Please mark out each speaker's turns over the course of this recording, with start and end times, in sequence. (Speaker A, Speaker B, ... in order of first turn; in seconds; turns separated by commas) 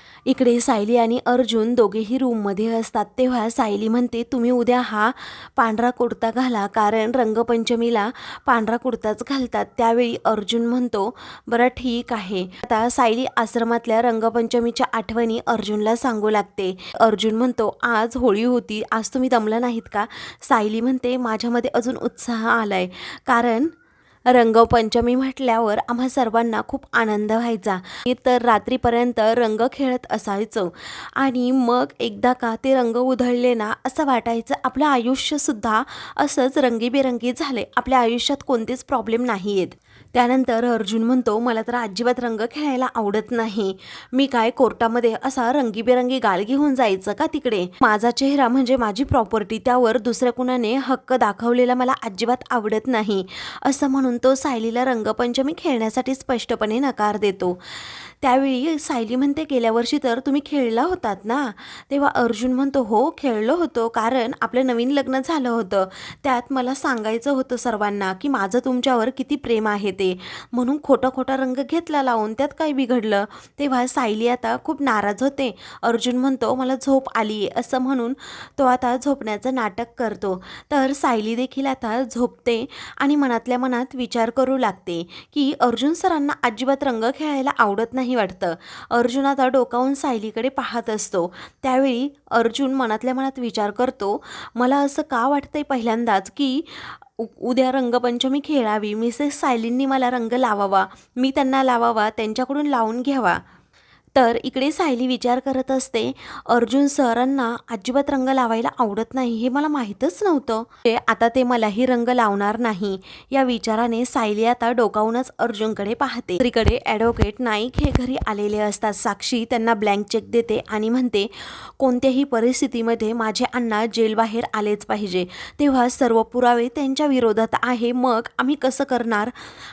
Speaker A: 0.3-23.7, Speaker A: 24.3-103.4, Speaker A: 104.2-129.3